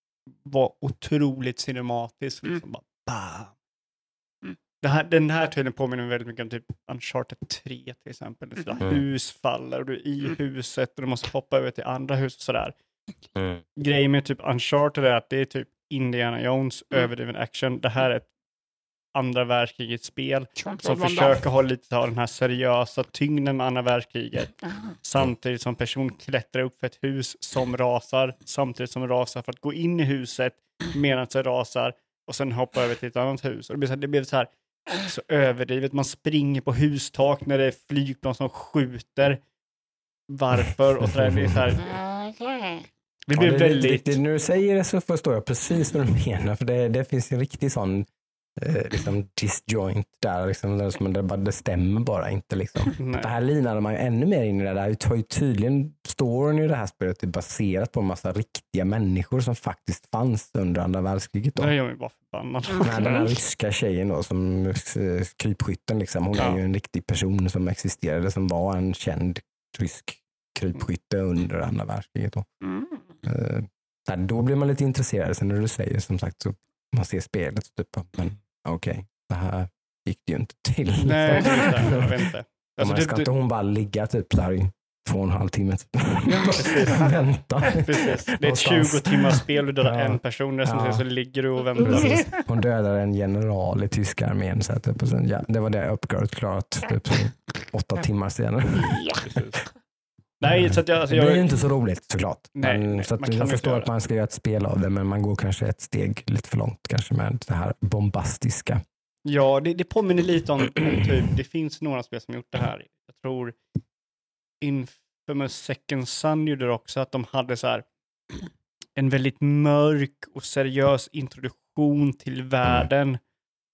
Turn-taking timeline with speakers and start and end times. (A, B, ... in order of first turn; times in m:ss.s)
0:00.4-0:03.6 A
0:04.8-0:12.7 A
0:13.4-0:13.6 B
0:13.8-0:18.3 A
0:19.1-0:39.4 A
0:20.6-0:21.4 C
0:40.3-0:41.9 A
0:41.2-0:41.7 B
0:41.8-0:42.9 C
0:43.3-0:44.2 A
0:43.3-1:01.7 B
0:53.0-0:53.3 A
1:01.6-1:03.0 A
1:02.7-1:03.3 C
1:02.8-1:12.4 B
1:12.6-1:13.0 C
1:13.2-1:22.1 B
1:21.0-1:23.3 A
1:22.8-1:31.0 B
1:26.2-1:27.1 A
1:27.7-1:32.2 A
1:31.8-1:39.2 B
1:32.1-1:32.4 C
1:38.8-1:39.2 C
1:39.2-1:39.6 A
1:40.4-1:41.5 A
1:40.6-1:48.8 B
1:42.6-1:43.9 A
1:49.2-1:53.6 A
1:54.6-1:57.9 A
1:59.0-2:03.2 A